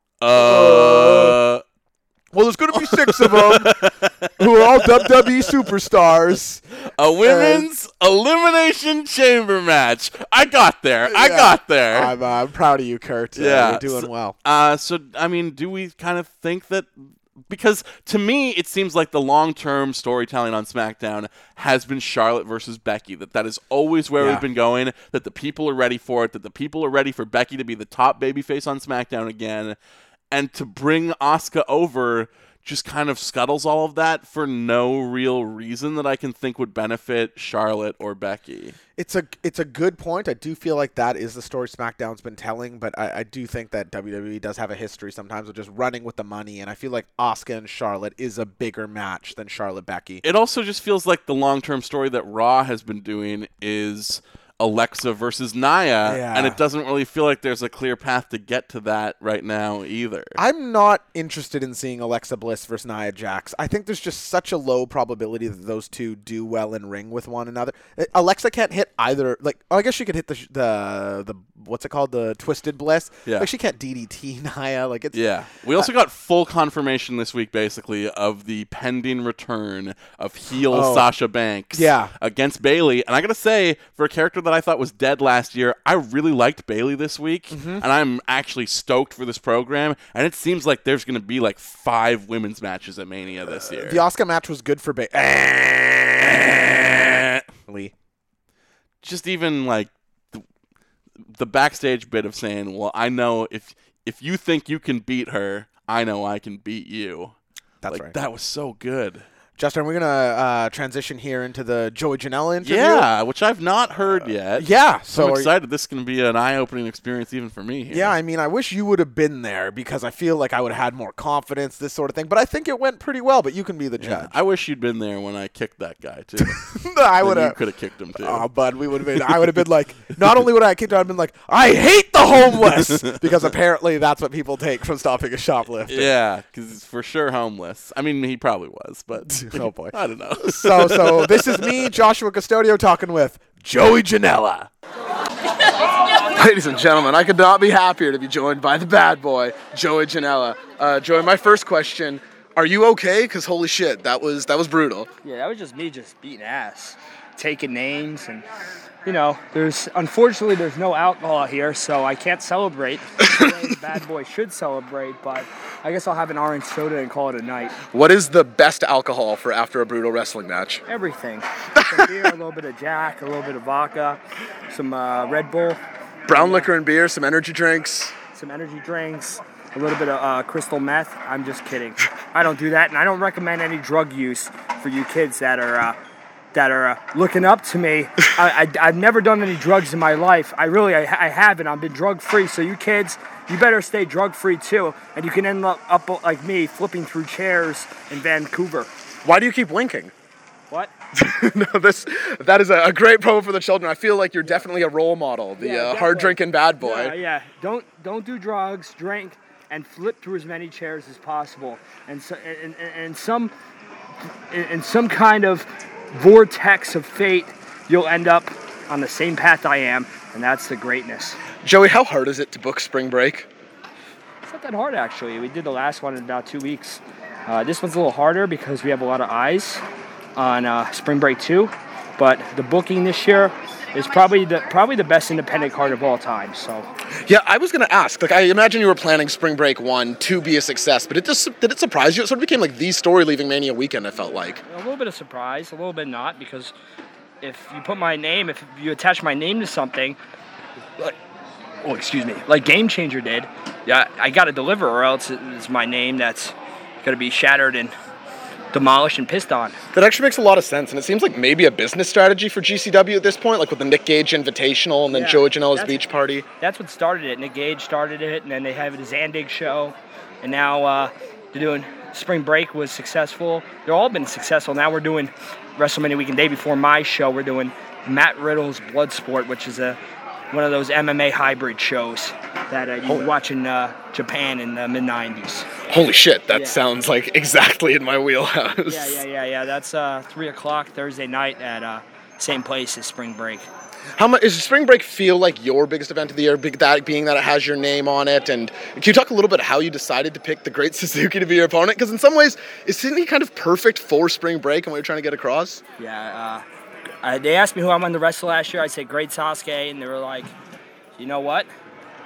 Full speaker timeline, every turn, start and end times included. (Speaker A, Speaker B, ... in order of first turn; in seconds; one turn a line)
Speaker A: 0.2-1.6
Speaker B: 0.3-1.4
Speaker B: 2.3-6.6
Speaker A: 2.7-5.6
Speaker A: 7.0-12.1
Speaker B: 7.2-7.7
Speaker B: 11.1-14.3
Speaker A: 13.3-29.8
Speaker B: 24.2-24.4
Speaker A: 30.3-38.8
Speaker B: 39.0-50.2
Speaker A: 50.2-60.4
Speaker B: 56.0-56.6
Speaker B: 60.4-75.2
Speaker A: 75.1-94.0
Speaker B: 80.6-81.1
Speaker B: 81.7-82.1
Speaker B: 87.5-87.8
Speaker B: 93.5-97.9
Speaker A: 99.0-100.4
Speaker A: 101.3-107.3
Speaker B: 107.8-108.1
Speaker A: 107.9-109.2
Speaker B: 109.6-113.0
Speaker A: 112.6-118.2
Speaker B: 114.5-115.5
Speaker B: 117.9-124.3
Speaker A: 124.0-128.4
Speaker B: 126.4-127.6
Speaker B: 128.2-136.1
Speaker A: 129.1-129.6
Speaker A: 132.8-133.2
Speaker A: 135.9-141.7
Speaker B: 139.3-144.7
Speaker C: 146.1-155.1
Speaker D: 155.2-158.4
Speaker D: 159.0-167.8
Speaker C: 163.2-163.5
Speaker C: 167.8-170.8
Speaker D: 170.9-176.7
Speaker C: 171.8-172.3
Speaker C: 176.3-178.1
Speaker D: 178.3-186.0
Speaker D: 186.5-198.9
Speaker C: 199.2-200.1
Speaker C: 201.2-207.1
Speaker D: 205.6-213.5
Speaker D: 214.5-221.4
Speaker C: 221.6-223.5
Speaker D: 224.4-229.8
Speaker D: 230.3-236.9
Speaker C: 237.2-244.6
Speaker D: 244.7-246.7
Speaker D: 247.4-250.2
Speaker D: 251.8-257.9
Speaker D: 258.7-259.8
Speaker C: 259.9-266.4
Speaker D: 265.1-266.0
Speaker D: 266.6-280.0
Speaker D: 280.5-285.7
Speaker C: 283.1-283.3
Speaker C: 285.8-289.2
Speaker D: 286.5-286.8
Speaker D: 288.9-293.7
Speaker C: 294.1-305.8
Speaker D: 306.0-306.6
Speaker D: 307.2-310.5
Speaker D: 311.2-311.7